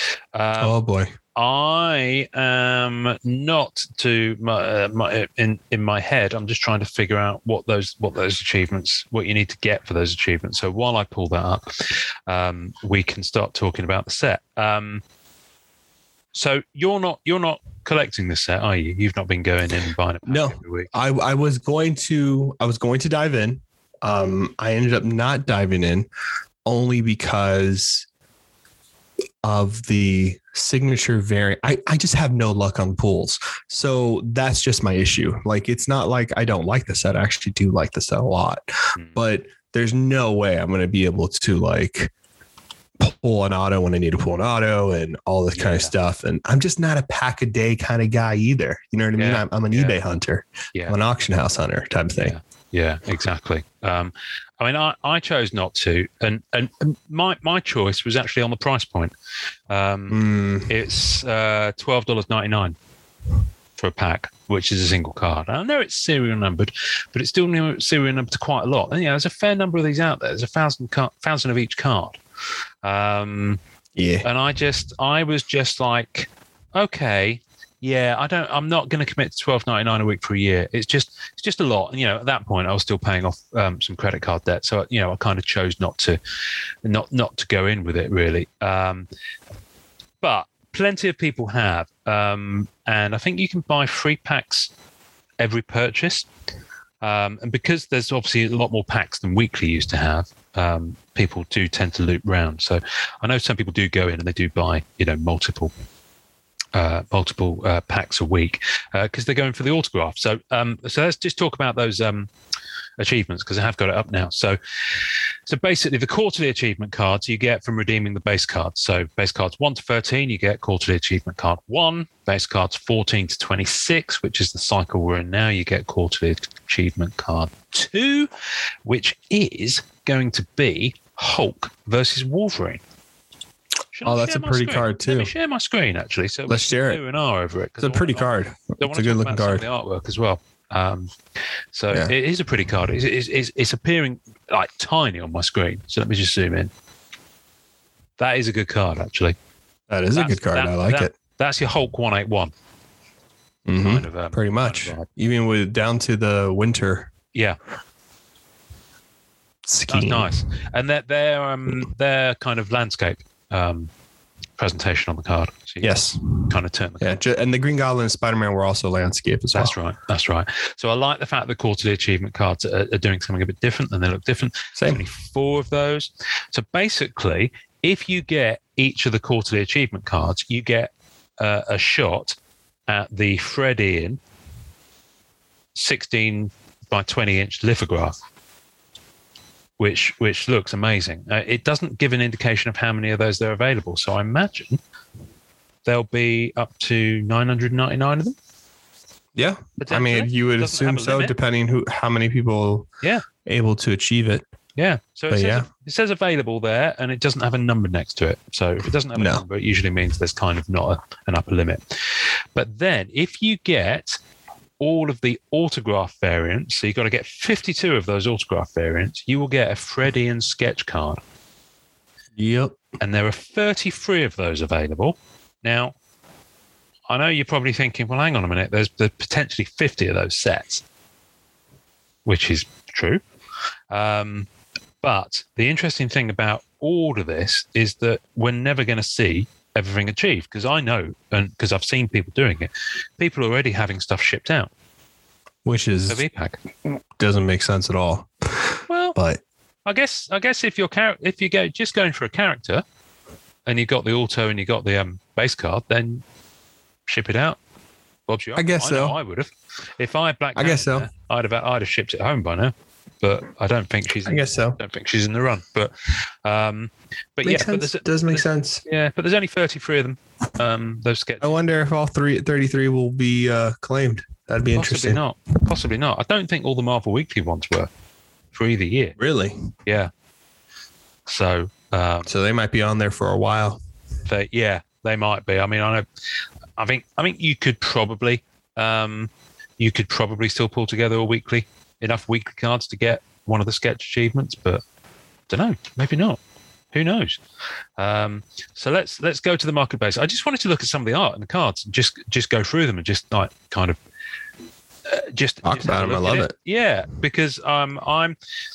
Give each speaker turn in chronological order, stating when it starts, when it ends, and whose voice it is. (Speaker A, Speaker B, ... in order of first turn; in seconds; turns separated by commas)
Speaker A: 0.3-0.8, Speaker B: 0.6-1.1, Speaker A: 1.3-15.0, Speaker A: 16.3-20.9, Speaker B: 20.2-26.1, Speaker B: 26.6-28.1, Speaker B: 29.4-38.6, Speaker A: 38.9-39.2, Speaker B: 39.1-42.1, Speaker B: 43.0-52.3, Speaker A: 45.5-45.9, Speaker A: 49.2-50.0, Speaker A: 52.2-59.1, Speaker A: 59.7-62.8, Speaker B: 60.1-60.7, Speaker A: 63.8-72.2, Speaker A: 72.8-73.6, Speaker B: 73.9-74.2, Speaker A: 74.2-86.2, Speaker A: 86.8-89.1, Speaker A: 90.2-94.7, Speaker A: 95.4-96.3, Speaker A: 97.0-105.7, Speaker A: 106.7-112.3, Speaker A: 113.0-114.6, Speaker A: 115.5-128.3, Speaker A: 128.8-132.8, Speaker A: 133.9-141.1, Speaker B: 134.0-135.3, Speaker B: 136.5-137.0, Speaker B: 137.8-139.6, Speaker A: 141.7-146.7, Speaker A: 148.2-149.4, Speaker B: 149.9-151.1, Speaker A: 150.1-152.5, Speaker B: 153.7-157.1, Speaker A: 153.8-155.1, Speaker B: 159.7-160.5, Speaker A: 159.9-163.9, Speaker A: 164.6-167.2, Speaker B: 165.8-169.8, Speaker A: 169.5-182.3, Speaker B: 174.8-175.0, Speaker A: 182.9-184.2, Speaker A: 185.7-188.2, Speaker A: 189.8-194.8, Speaker A: 195.8-198.3, Speaker B: 199.3-202.9, Speaker A: 199.8-201.3, Speaker B: 203.4-204.4, Speaker A: 204.8-214.2, Speaker B: 205.3-205.7, Speaker B: 209.1-209.4, Speaker A: 214.8-221.2, Speaker B: 222.3-222.8, Speaker A: 223.0-225.9, Speaker A: 227.1-230.8, Speaker A: 232.2-233.2, Speaker A: 233.9-234.5, Speaker A: 235.0-244.7, Speaker B: 245.6-246.2, Speaker A: 246.1-246.6, Speaker B: 247.2-249.4, Speaker A: 248.9-249.2, Speaker A: 249.8-252.8, Speaker A: 253.7-256.2, Speaker A: 257.1-257.6, Speaker A: 258.3-271.5, Speaker B: 258.6-259.2, Speaker B: 260.5-261.1, Speaker B: 264.2-264.8, Speaker B: 267.4-268.8, Speaker B: 271.4-275.2, Speaker A: 274.7-277.9, Speaker A: 278.5-279.1, Speaker B: 279.2-279.7, Speaker A: 281.2-282.3, Speaker B: 282.2-283.8, Speaker A: 284.2-286.1, Speaker A: 286.8-294.8, Speaker A: 295.5-296.4, Speaker A: 296.9-297.4, Speaker A: 298.0-304.0, Speaker A: 305.1-308.4, Speaker B: 305.6-306.5